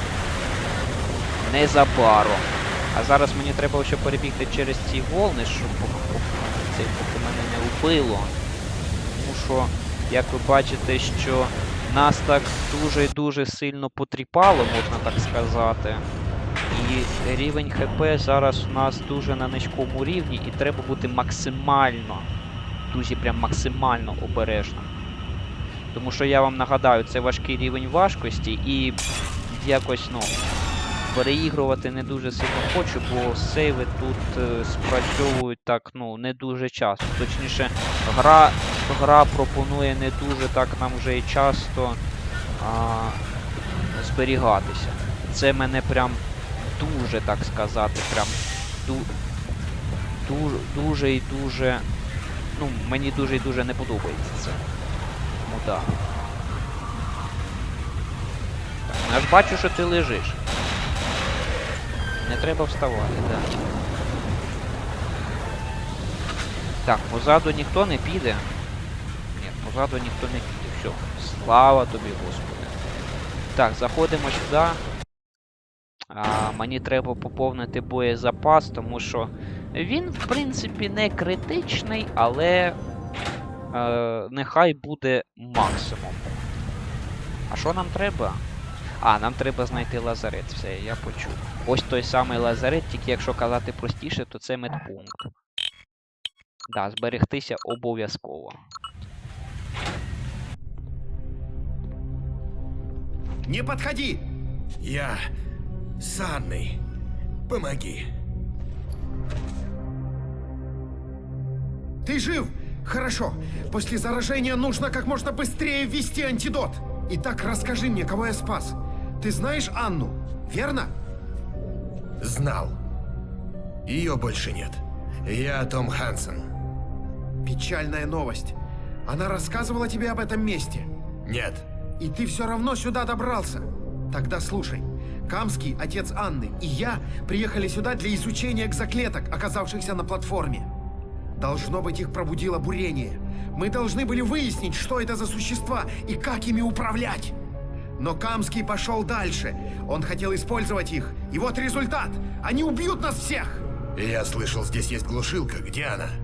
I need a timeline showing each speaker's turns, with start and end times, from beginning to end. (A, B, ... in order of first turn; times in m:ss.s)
0:01.4-0:08.3 A
0:09.1-0:16.0 A
0:16.7-0:22.3 A
0:22.9-0:24.9 A
0:25.9-0:30.4 A
0:31.1-0:42.0 A
0:42.6-0:43.2 A
0:43.9-0:46.2 A
0:46.8-0:49.1 A
0:50.2-0:51.8 A
0:52.5-0:54.6 A
0:55.4-0:55.9 A
0:58.9-1:00.4 A
1:02.2-1:03.6 A
1:06.8-1:08.5 A
1:09.3-1:12.8 A
1:13.6-1:14.8 A
1:16.1-1:22.8 A
1:23.7-1:26.3 A
1:27.5-1:28.4 A
1:29.0-1:35.3 A
1:36.7-1:38.6 A
1:43.5-1:44.3 B
1:44.8-1:45.2 C
1:46.0-1:46.8 C
1:47.5-1:48.1 C
1:52.0-2:00.9 B
2:02.2-2:02.8 C
2:03.9-2:06.5 C
2:07.4-2:10.9 B
2:11.2-2:11.7 C
2:12.0-2:20.7 B
2:21.4-2:27.4 B
2:28.0-2:33.7 B
2:34.0-2:36.1 C